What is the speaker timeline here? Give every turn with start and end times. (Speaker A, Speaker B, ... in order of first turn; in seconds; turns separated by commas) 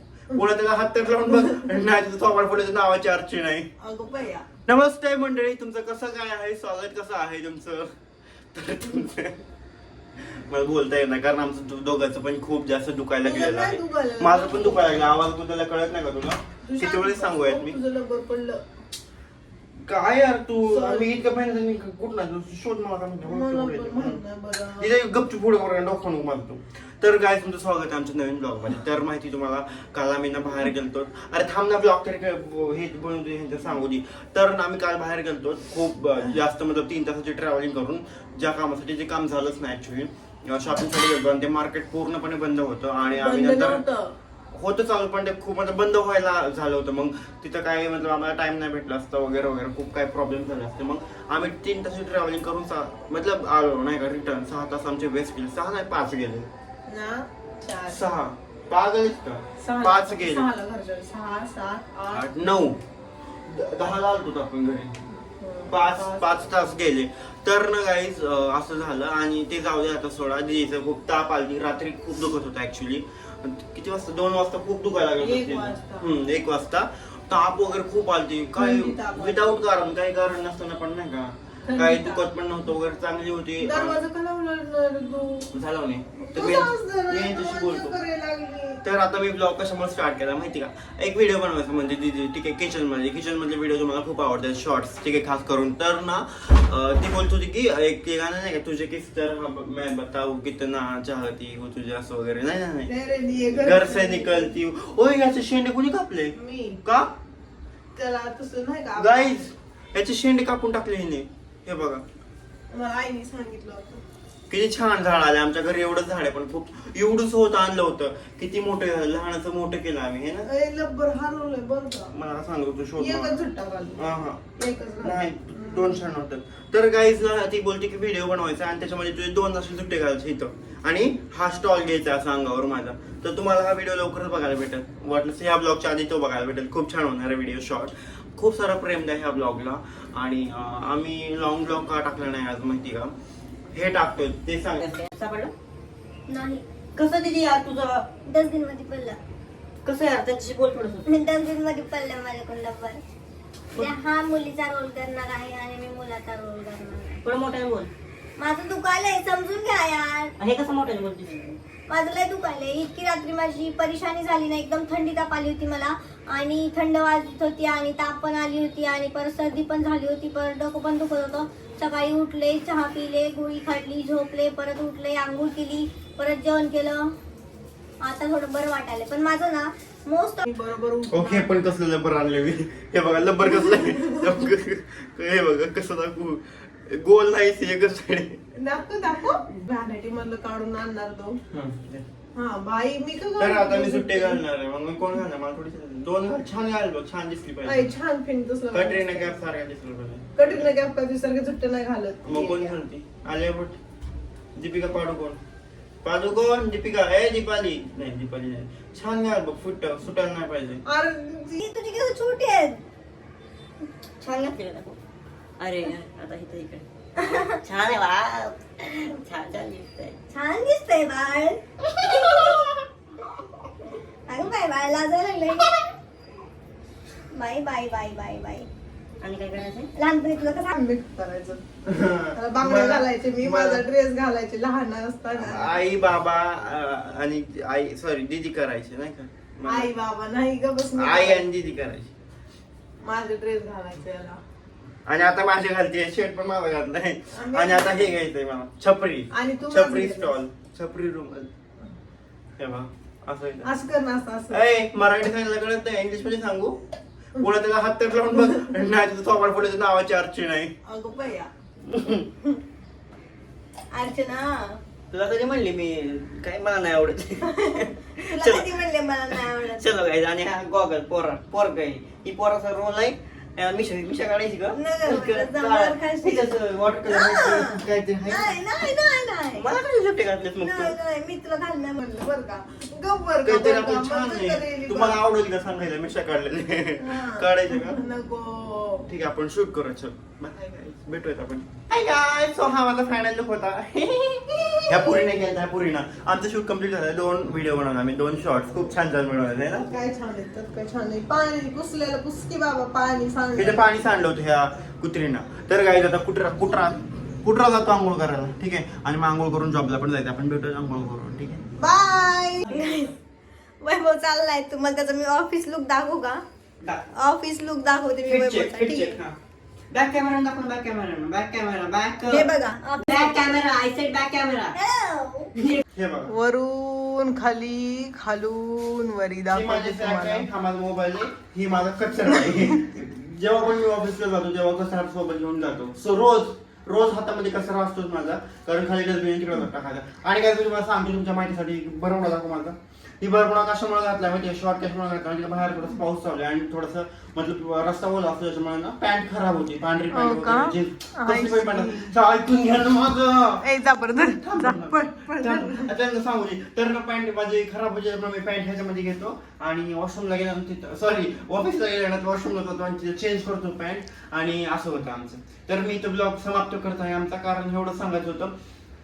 Speaker A: 0.3-3.7, Speaker B: 3.8-4.5, Speaker A: 4.7-7.9, Speaker A: 8.5-9.4, Speaker A: 10.2-17.8, Speaker B: 13.2-14.9, Speaker B: 16.6-18.6, Speaker A: 19.9-24.2, Speaker B: 20.7-21.1, Speaker B: 23.3-24.9, Speaker A: 24.8-43.8, Speaker B: 43.1-44.1, Speaker A: 44.5-56.5, Speaker B: 56.9-58.0, Speaker A: 57.9-60.5, Speaker B: 59.6-62.3, Speaker A: 62.1-62.8, Speaker A: 63.5-65.0, Speaker B: 65.4-66.5, Speaker A: 65.7-84.0, Speaker B: 75.2-76.1, Speaker B: 78.6-79.4, Speaker B: 81.7-82.2, Speaker B: 83.6-85.5, Speaker A: 85.5-88.0, Speaker B: 86.2-88.8, Speaker A: 88.8-102.9, Speaker B: 102.8-104.6, Speaker A: 103.5-107.1, Speaker B: 106.3-106.8, Speaker B: 108.0-109.4, Speaker A: 109.0-112.0, Speaker B: 112.7-114.0, Speaker A: 114.5-120.5, Speaker B: 120.5-122.1, Speaker A: 122.1-123.4, Speaker B: 123.0-126.0, Speaker A: 124.0-124.4, Speaker A: 125.0-143.1, Speaker A: 143.7-144.9, Speaker C: 144.8-145.5, Speaker D: 146.3-146.7, Speaker C: 147.0-148.1, Speaker D: 148.3-149.2, Speaker C: 149.8-151.1, Speaker D: 151.1-153.0, Speaker D: 153.8-157.2, Speaker C: 157.2-157.9, Speaker D: 158.4-160.3, Speaker C: 160.4-161.6, Speaker D: 161.9-177.1, Speaker D: 178.0-180.5, Speaker B: 180.4-181.7, Speaker A: 181.1-188.4, Speaker B: 188.6-191.4, Speaker A: 191.5-192.1, Speaker B: 192.3-194.4, Speaker A: 193.4-197.9, Speaker B: 197.6-199.3, Speaker A: 198.7-200.7, Speaker B: 200.4-202.7, Speaker A: 202.2-203.8, Speaker A: 204.6-205.4, Speaker A: 206.0-210.8, Speaker B: 210.9-211.6, Speaker D: 211.6-212.8, Speaker C: 214.2-215.0, Speaker C: 215.6-220.2, Speaker D: 217.2-217.5, Speaker D: 220.3-222.8, Speaker D: 224.3-225.8, Speaker D: 227.3-228.7, Speaker C: 229.2-229.9, Speaker D: 229.9-230.7, Speaker B: 230.7-231.6, Speaker A: 231.8-233.8, Speaker B: 232.3-235.8, Speaker A: 235.3-239.9, Speaker B: 239.7-241.5, Speaker A: 240.9-242.1, Speaker B: 243.0-244.4, Speaker A: 245.1-251.5, Speaker B: 247.3-248.1, Speaker B: 249.3-250.3, Speaker A: 252.6-253.7, Speaker B: 253.6-254.6, Speaker A: 254.5-256.8, Speaker A: 257.4-260.8, Speaker B: 260.9-261.5, Speaker A: 261.9-262.3, Speaker D: 263.9-264.7, Speaker A: 265.1-267.2, Speaker C: 265.4-270.7, Speaker D: 268.4-269.8, Speaker A: 269.4-275.9, Speaker C: 271.6-278.5, Speaker D: 275.1-276.5, Speaker D: 277.1-279.7, Speaker A: 277.4-278.6, Speaker A: 279.5-281.0, Speaker D: 280.6-282.0, Speaker B: 282.0-285.2, Speaker A: 283.4-288.0, Speaker B: 287.0-289.1, Speaker A: 289.1-300.0, Speaker B: 299.8-303.8, Speaker A: 303.6-311.6, Speaker B: 311.8-313.1, Speaker C: 312.7-313.1, Speaker D: 314.8-316.2, Speaker C: 316.8-317.2, Speaker B: 317.2-319.2, Speaker D: 318.2-318.4, Speaker C: 318.2-319.4, Speaker C: 319.9-324.7, Speaker B: 322.3-322.9, Speaker D: 322.3-323.4, Speaker D: 324.7-325.5, Speaker C: 325.6-325.8, Speaker A: 325.9-326.3, Speaker B: 326.3-330.5, Speaker A: 329.5-368.5, Speaker B: 350.1-352.1, Speaker B: 353.6-355.9